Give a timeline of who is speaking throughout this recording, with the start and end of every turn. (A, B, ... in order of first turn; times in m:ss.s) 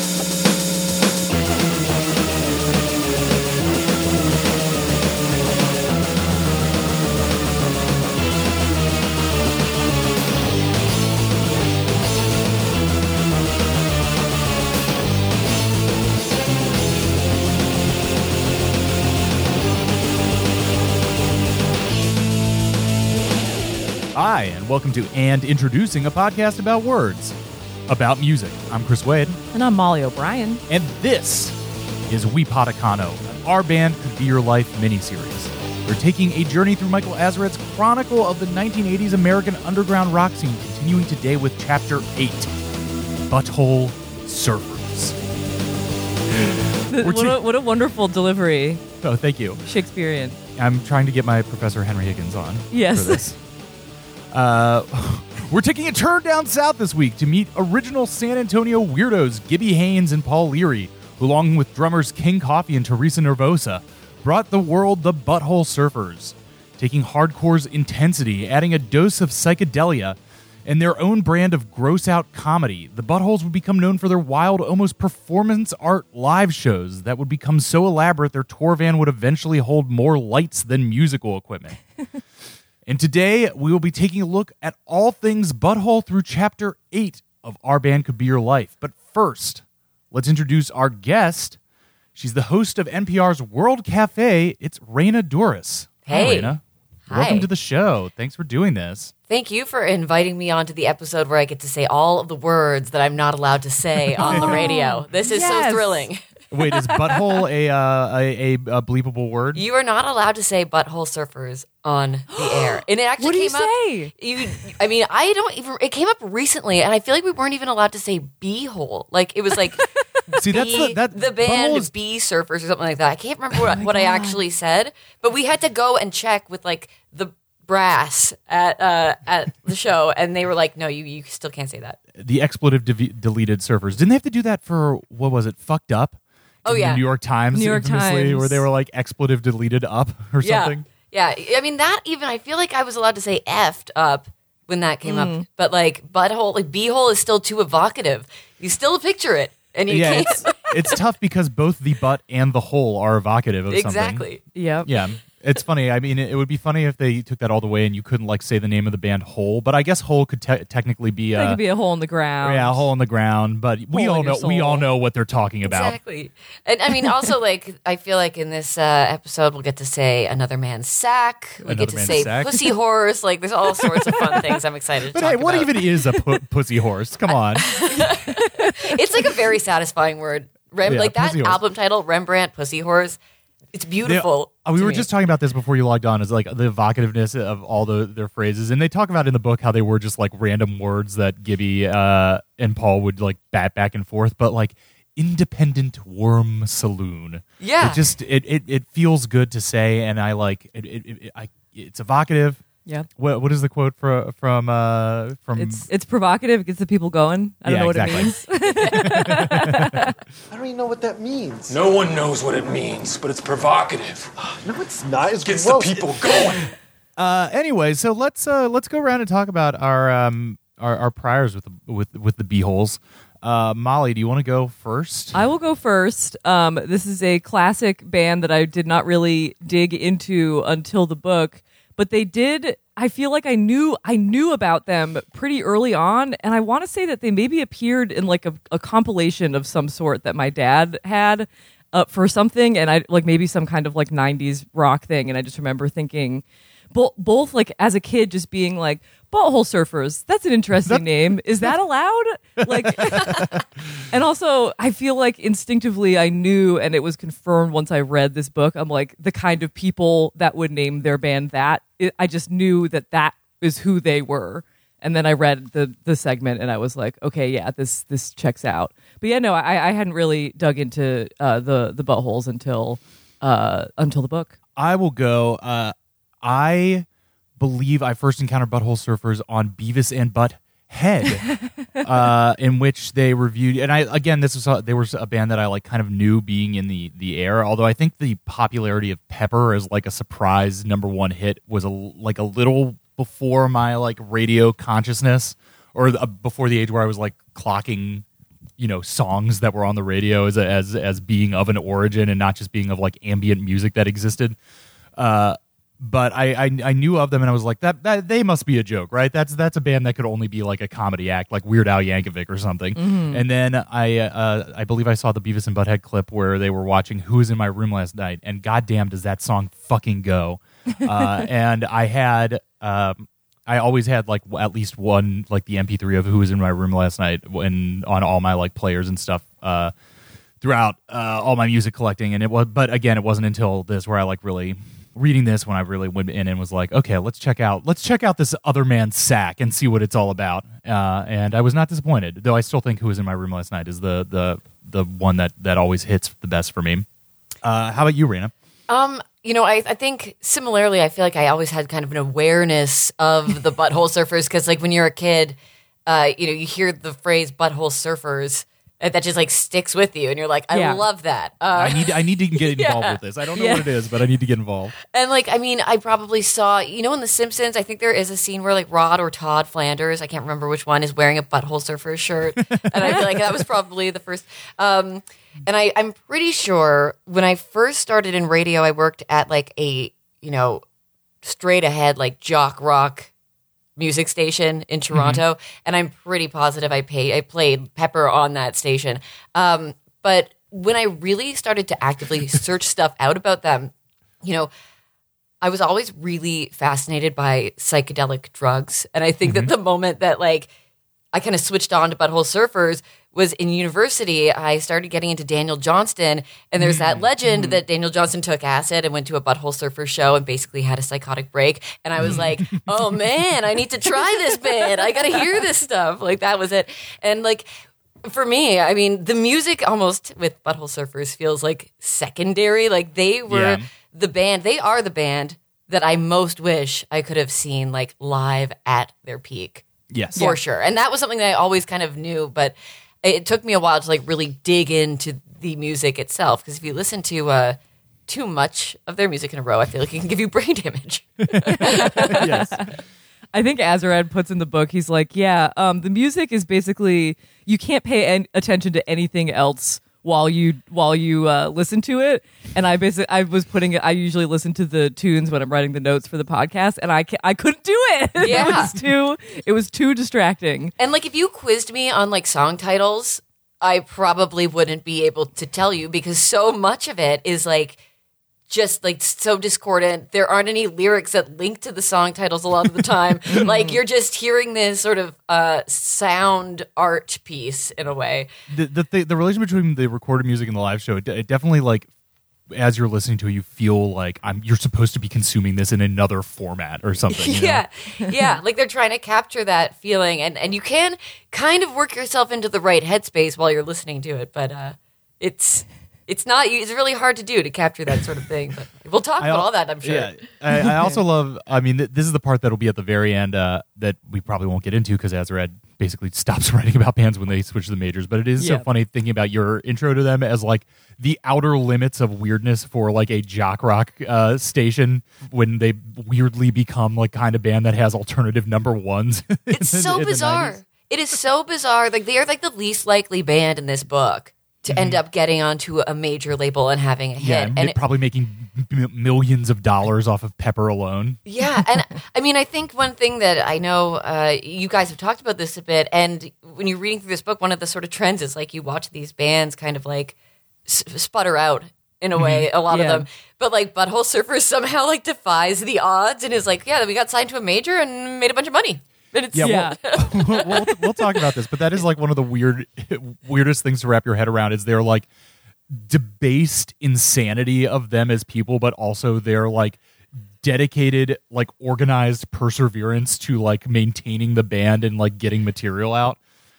0:24.1-0:27.4 A
0:27.9-0:29.4 A
0:29.5-0:30.6 B
0:30.7-0:31.6 A
0:32.1-0:42.5 A
0:43.3-0:45.2 A
0:46.9-0:48.8 B
0:47.0-0:47.4 A
0:49.0-0:49.6 A
0:49.6-0:50.4 B
0:50.6-0:53.4 A
0:52.7-0:53.2 B
0:54.3-1:21.8 A
1:22.8-1:31.6 A
1:32.1-1:39.1 A
1:36.1-1:37.5 C
1:39.3-1:46.2 C
1:44.2-1:46.0 B
1:44.2-1:44.7 A
1:46.5-1:49.6 A
1:49.5-2:12.0 C
1:53.2-1:54.1 B
2:00.4-2:01.9 A
2:03.6-2:04.4 B
2:12.2-2:20.8 A
2:16.6-2:17.0 C
2:17.5-2:18.6 B
2:20.4-2:30.9 C
2:25.0-2:25.4 B
2:29.9-2:34.2 A
2:33.7-2:34.4 C
2:34.5-2:34.9 B
2:34.8-2:41.6 A
2:41.3-2:42.9 B
2:42.4-2:46.0 A
2:43.9-2:44.8 B
2:45.6-2:55.9 C
2:51.6-2:52.5 B
2:51.6-2:52.6 A
2:55.1-2:57.7 A
2:57.6-3:03.2 C
2:58.4-2:58.9 B
3:00.8-3:01.6 A
3:03.7-3:05.1 C
3:04.0-3:22.6 A
3:17.6-3:18.1 C
3:23.2-3:25.8 A
3:25.6-3:30.1 B
3:27.6-3:30.1 A
3:30.5-3:31.8 D
3:31.7-3:34.3 E
3:34.6-3:36.6 D
3:35.0-3:36.7 E
3:37.2-3:45.4 A
3:45.3-4:13.4 B
4:12.6-4:13.6 A
4:14.1-4:34.5 B
4:34.8-4:58.2 A
4:58.8-5:04.6 A
5:05.1-5:29.9 A
5:12.9-5:13.4 B
5:21.1-5:21.4 B
5:30.6-5:47.0 A
5:47.6-5:48.5 A
5:48.9-6:03.2 C
6:00.7-6:01.0 B
6:01.7-6:04.9 A
6:03.6-6:03.8 B
6:05.1-6:20.8 C
6:12.6-6:13.3 A
6:21.4-6:23.3 C
6:24.0-6:33.9 C
6:25.1-6:25.4 A
6:34.4-6:34.7 C
6:35.6-6:40.7 C
6:39.4-6:39.7 A
6:41.3-6:57.7 C
6:46.8-6:47.3 A
6:47.4-6:47.7 B
6:52.2-6:53.2 A
6:58.2-7:09.8 C
7:03.5-7:03.8 A
7:10.1-7:10.4 A
7:10.4-7:22.5 C
7:21.4-7:22.8 A
7:21.7-7:22.9 B
7:23.5-7:40.9 B
7:38.4-7:38.9 C
7:38.4-7:39.0 A
7:41.0-7:48.0 C
7:48.7-7:58.5 C
7:53.5-7:54.0 B
7:58.7-8:02.1 A
8:02.7-8:07.8 A
8:07.3-8:20.4 C
8:08.2-8:08.5 B
8:19.4-8:40.8 A
8:20.8-8:21.2 B
8:28.6-8:28.9 B
8:39.7-8:48.0 C
8:44.9-8:45.2 A
8:47.4-8:51.4 A
8:51.4-9:00.3 C
9:00.8-9:11.3 C
9:02.3-9:02.7 A
9:02.9-9:03.2 B
9:09.5-9:15.3 A
9:09.6-9:10.0 B
9:15.9-9:20.0 A
9:20.6-9:26.4 A